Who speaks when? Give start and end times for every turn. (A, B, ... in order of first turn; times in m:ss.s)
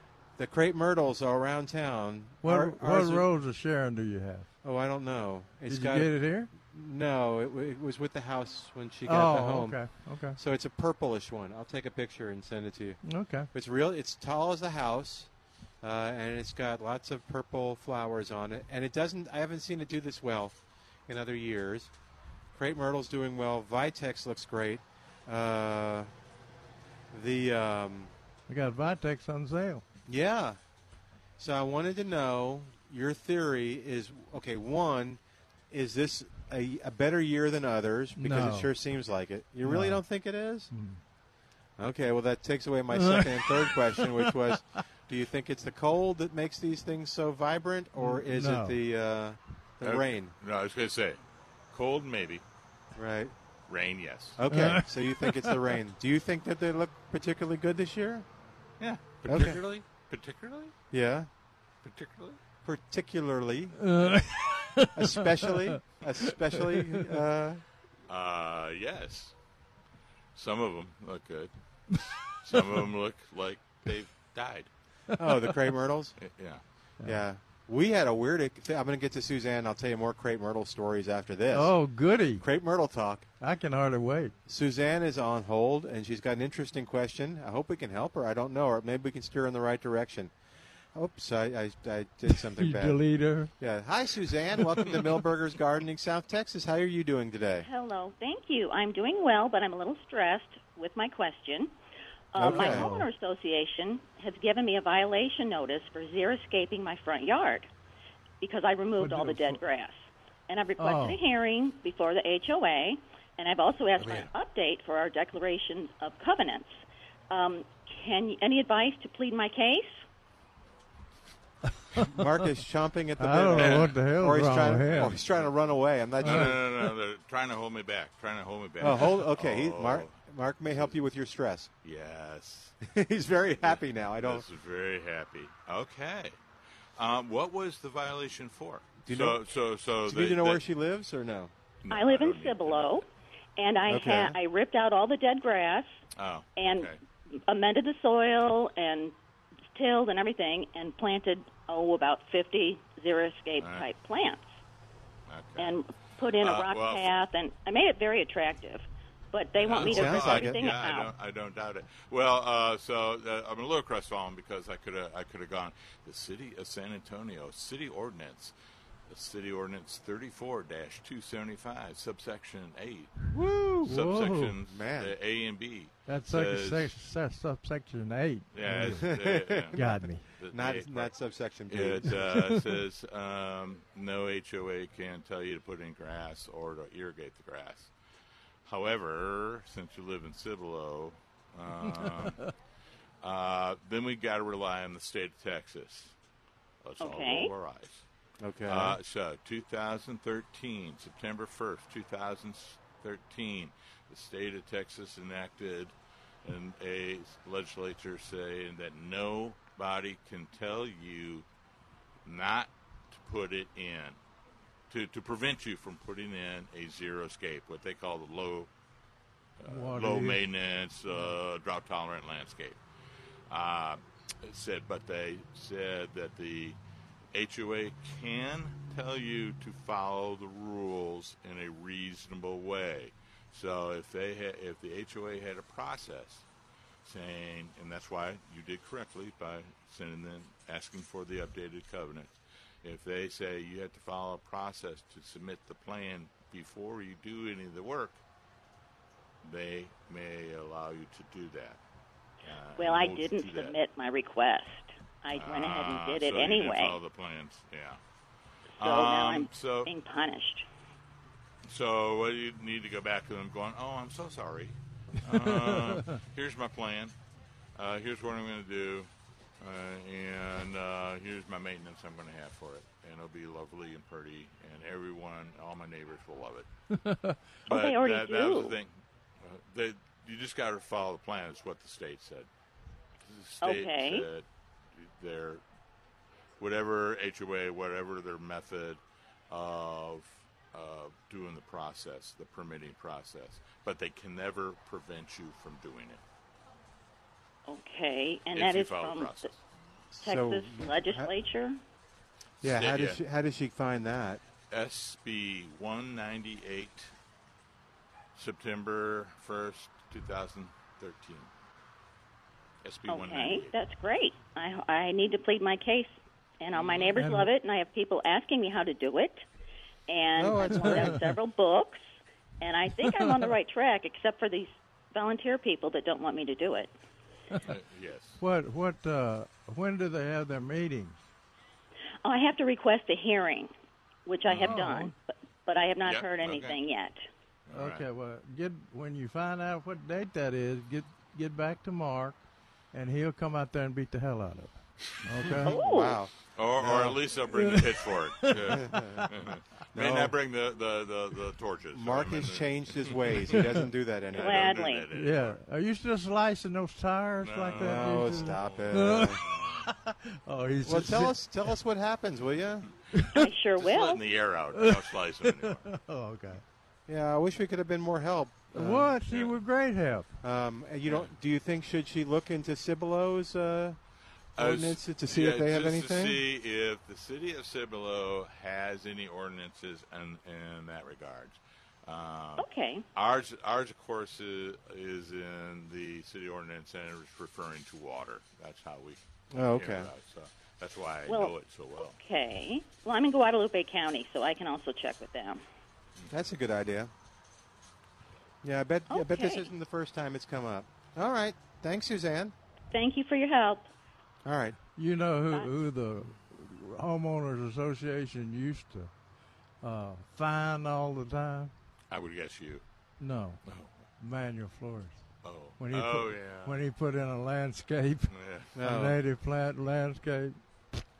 0:00.4-0:03.3 A
0:02.4-0:04.5 B
0:04.6-0:09.8 A
0:05.7-0:06.5 B
0:09.1-0:10.4 B
0:10.4-0:13.0 A
0:13.0-0:13.5 B
0:13.5-0:15.3 A
0:15.8-0:20.6 A
0:21.1-0:21.9 A
0:22.5-0:26.1 A
0:27.1-0:28.1 A
0:28.5-0:29.8 B
0:30.1-0:30.6 A
0:31.4-0:35.2 A
0:35.7-0:40.7 A
0:38.2-0:38.7 B
0:39.6-0:40.0 B
0:40.7-0:41.0 B
0:41.8-0:50.3 A
0:42.9-0:44.8 B
0:48.0-0:48.8 B
0:49.8-0:51.2 C
0:51.7-0:52.4 C
0:53.0-0:53.4 A
0:53.7-0:54.4 C
0:54.4-0:58.3 A
0:54.5-0:55.6 B
0:58.8-1:00.7 C
0:59.2-0:59.7 A
1:00.9-1:01.3 A
1:01.8-1:02.4 C
1:02.6-1:03.8 A
1:03.8-1:05.8 B
1:05.0-1:07.6 A
1:06.7-1:07.0 B
1:08.1-1:09.3 C
1:10.4-1:14.7 C
1:15.2-1:16.2 A
1:16.2-1:16.6 C
1:17.0-1:21.8 A
1:21.5-1:22.5 B
1:22.4-1:23.3 A
1:23.4-1:24.4 B
1:24.5-1:30.3 A
1:30.9-1:33.0 A
1:32.3-1:33.5 B
1:33.6-1:37.7 A
1:37.6-1:41.7 D
1:42.3-1:47.7 D
1:42.4-1:42.9 A
1:42.4-1:43.1 B
1:48.4-2:00.0 D
1:49.0-1:49.6 B
1:50.8-1:51.2 B
1:54.0-1:54.3 C
2:02.0-2:06.6 A
2:03.2-2:05.1 B
2:03.6-2:03.9 C
2:04.9-2:05.5 C
2:06.2-2:10.2 C
2:06.2-2:06.5 B
2:08.8-2:11.7 A
2:10.7-2:10.9 C
2:11.8-2:12.8 C
2:12.8-2:14.4 A
2:13.6-2:16.4 C
2:17.0-2:20.6 C
2:19.0-2:19.4 A
2:20.0-2:21.5 A
2:21.8-2:23.0 C
2:21.9-2:23.1 D
2:23.6-2:25.9 D
2:23.9-2:24.4 A
2:26.2-2:27.0 C
2:26.6-2:29.2 D
2:29.7-2:34.5 D
2:33.6-2:33.9 C
2:35.3-2:35.8 C
2:35.6-2:41.1 D
2:36.4-2:37.1 C
2:39.6-2:48.5 C
2:39.8-2:40.7 A
2:49.1-2:53.3 C
2:53.3-2:53.9 A
2:53.8-2:56.9 C
2:53.8-2:54.5 B
2:54.7-2:55.2 A
2:56.1-2:59.1 B
2:58.5-3:01.2 C
2:58.7-3:02.4 A
2:59.8-3:00.3 B
3:01.7-3:07.9 C
3:02.4-3:02.6 B
3:08.6-3:12.4 C
3:12.0-3:12.3 B
3:13.2-3:16.1 C
3:16.8-3:18.0 C
3:17.0-3:17.5 D
3:18.4-3:19.0 A
3:18.7-3:25.9 C
3:26.4-3:31.5 C
3:32.2-3:34.2 C
3:34.9-3:38.7 C
3:39.6-3:42.8 C
3:39.7-3:40.4 B
3:43.5-3:46.8 C
3:47.3-3:56.4 C
3:57.0-4:08.2 C
4:09.4-4:11.8 C
4:12.4-4:13.8 C
4:12.8-4:17.0 D
4:15.3-4:18.0 C
4:18.8-4:19.9 C
4:18.8-4:20.7 D
4:21.7-4:27.1 C
4:25.3-4:26.2 B
4:27.8-4:36.7 C
4:36.9-4:37.4 B
4:37.7-4:38.8 D
4:37.7-4:42.5 C
4:43.3-4:44.4 C
4:43.6-4:44.3 D
4:45.0-4:45.6 C
4:46.6-4:56.2 C
4:57.7-4:59.4 D
4:58.5-4:59.6 C
5:00.1-5:01.3 A
5:00.2-5:01.8 D
5:02.6-5:03.2 C
5:02.6-5:04.4 A
5:04.7-5:07.1 C
5:08.4-5:11.5 C
5:12.8-5:13.8 C
5:13.1-5:19.4 D
5:16.8-5:17.1 C
5:17.2-5:17.5 B
5:20.1-5:22.1 D
5:20.4-5:21.2 A
5:20.8-5:21.2 B
5:22.6-5:26.9 D
5:23.0-5:23.3 B
5:27.7-5:28.4 C
5:28.4-5:31.2 B
5:32.2-5:33.7 D
5:34.3-5:37.2 D
5:34.5-5:34.8 C
5:34.7-5:35.1 B
5:36.0-5:36.8 C
5:37.7-5:38.0 C
5:37.7-5:42.4 B
5:42.9-5:45.7 B
5:45.6-5:47.2 A
5:45.6-5:46.2 D
5:46.6-5:53.8 C
5:47.6-5:47.8 B
5:48.4-5:49.2 B
5:48.6-5:49.3 A
5:49.9-5:50.4 A
5:51.9-5:54.8 A
5:54.3-5:55.6 C
5:54.3-5:55.1 D
5:55.1-6:01.4 B
5:57.4-5:59.9 C
5:57.8-5:59.4 A
6:00.8-6:02.9 A
6:03.3-6:04.3 D
6:03.8-6:05.9 C
6:04.8-6:06.6 B
6:07.1-6:09.1 A
6:08.7-6:10.3 B
6:09.3-6:09.6 C
6:10.4-6:14.0 A
6:14.6-6:16.4 A
6:14.6-6:32.2 C
6:22.6-6:23.0 D
6:29.5-6:30.1 A
6:31.3-6:35.6 D
6:36.3-6:37.1 A
6:38.6-6:42.6 A
6:39.1-6:39.7 D
6:42.9-6:43.9 D
6:44.4-6:44.8 A
6:45.0-6:49.1 B
6:49.8-6:51.7 B
6:52.1-6:52.8 C
6:53.2-6:53.6 B
6:53.6-6:53.9 C
6:54.2-6:55.2 B
6:55.4-6:56.8 C
6:55.8-7:00.6 B
6:58.3-6:58.7 C
6:58.8-6:59.2 A